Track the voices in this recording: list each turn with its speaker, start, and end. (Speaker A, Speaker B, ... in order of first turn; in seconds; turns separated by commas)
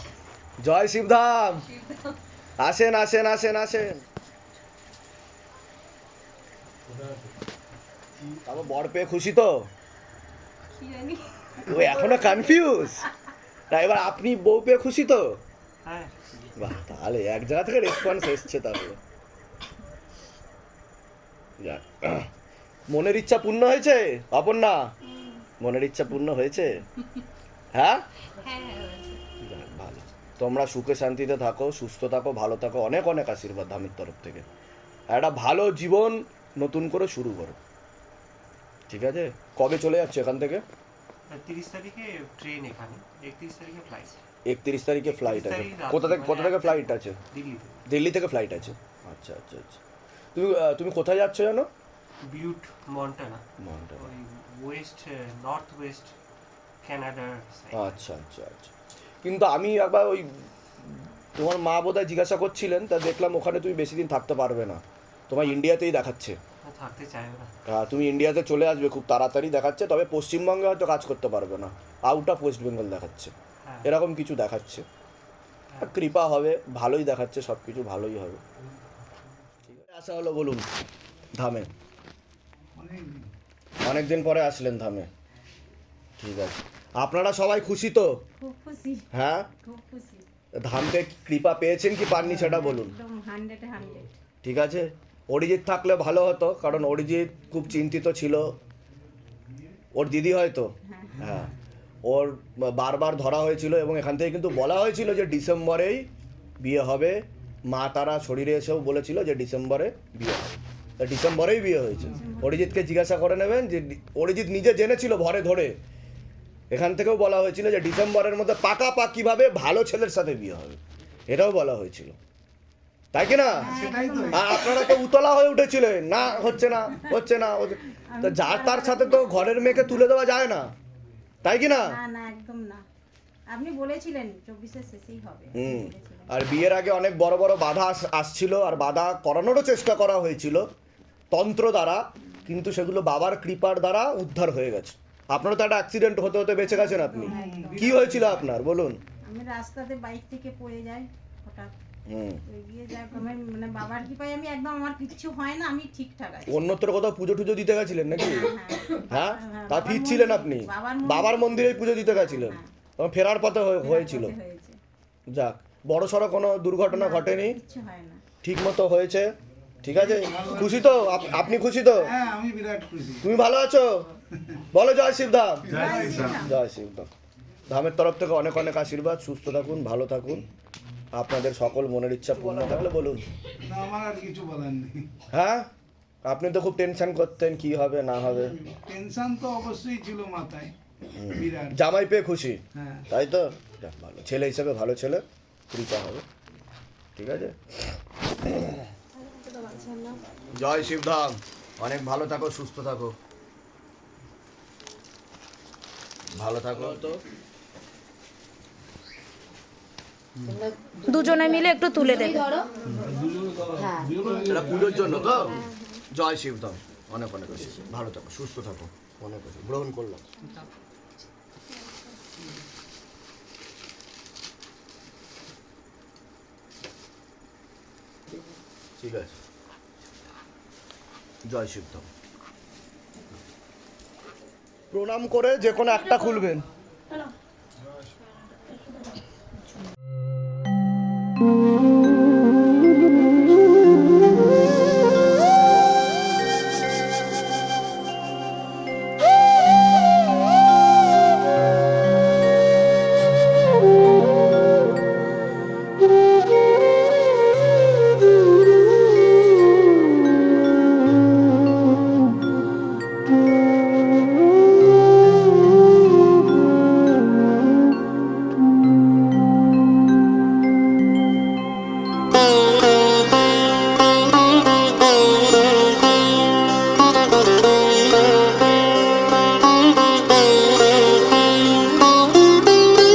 Speaker A: 0.6-1.7, Speaker A: 2.6-4.0, Speaker A: 8.4-9.7, Speaker B: 10.8-11.4, Speaker A: 11.6-13.1, Speaker A: 13.7-15.4, Speaker C: 15.8-16.5, Speaker A: 16.6-19.0, Speaker A: 21.6-22.3, Speaker A: 22.9-24.9, Speaker A: 25.6-26.7, Speaker A: 27.7-28.0, Speaker B: 28.4-29.2, Speaker A: 29.4-34.4, Speaker A: 35.1-37.6, Speaker A: 38.9-40.6, Speaker C: 41.3-44.2, Speaker A: 44.5-47.2, Speaker C: 45.1-47.8, Speaker A: 47.9-49.8, Speaker A: 50.3-51.7, Speaker C: 52.2-53.4, Speaker A: 53.6-54.0, Speaker C: 54.0-56.1, Speaker C: 56.8-58.0, Speaker A: 57.7-58.7, Speaker A: 59.2-66.4, Speaker C: 66.6-67.5, Speaker A: 67.7-74.8, Speaker C: 73.6-73.9, Speaker A: 75.8-78.4, Speaker A: 79.7-80.7, Speaker A: 81.4-81.7, Speaker D: 82.8-83.3, Speaker A: 83.8-85.1, Speaker A: 86.2-88.2, Speaker B: 88.4-89.0, Speaker A: 89.1-89.5, Speaker B: 89.6-90.2, Speaker A: 90.6-92.9, Speaker B: 92.6-94.1, Speaker A: 94.4-98.6, Speaker A: 99.9-101.5, Speaker B: 100.9-101.2, Speaker A: 102.0-106.1, Speaker A: 106.6-115.8, Speaker B: 112.0-112.5, Speaker A: 116.7-122.2, Speaker A: 123.1-123.7, Speaker B: 123.6-124.8, Speaker D: 123.6-124.6, Speaker A: 124.3-130.7, Speaker B: 128.1-129.9, Speaker A: 131.4-131.9, Speaker B: 131.8-132.8, Speaker B: 133.5-136.3, Speaker A: 135.5-140.7, Speaker A: 141.3-149.0, Speaker B: 146.7-148.0, Speaker D: 147.2-148.5, Speaker B: 149.3-151.7, Speaker A: 152.1-152.4, Speaker B: 152.5-156.6, Speaker A: 156.5-164.3, Speaker B: 158.1-162.6, Speaker B: 163.8-164.8, Speaker A: 165.3-167.6, Speaker B: 166.9-168.2, Speaker A: 168.4-172.1, Speaker D: 169.9-173.3, Speaker A: 173.2-174.1, Speaker A: 174.7-177.1, Speaker D: 175.7-176.4, Speaker B: 175.7-176.5, Speaker A: 177.7-180.4, Speaker A: 181.1-183.2, Speaker D: 183.6-185.1, Speaker A: 185.3-185.7, Speaker A: 186.2-188.6, Speaker D: 188.7-190.7, Speaker A: 191.2-196.2, Speaker D: 191.3-191.8, Speaker D: 192.7-193.1, Speaker A: 197.2-198.8, Speaker E: 199.3-200.2, Speaker A: 200.5-203.1, Speaker A: 206.3-207.1, Speaker E: 210.5-212.7, Speaker E: 213.8-214.2, Speaker A: 214.3-220.3, Speaker A: 229.0-229.4, Speaker A: 231.4-232.1, Speaker A: 234.9-236.6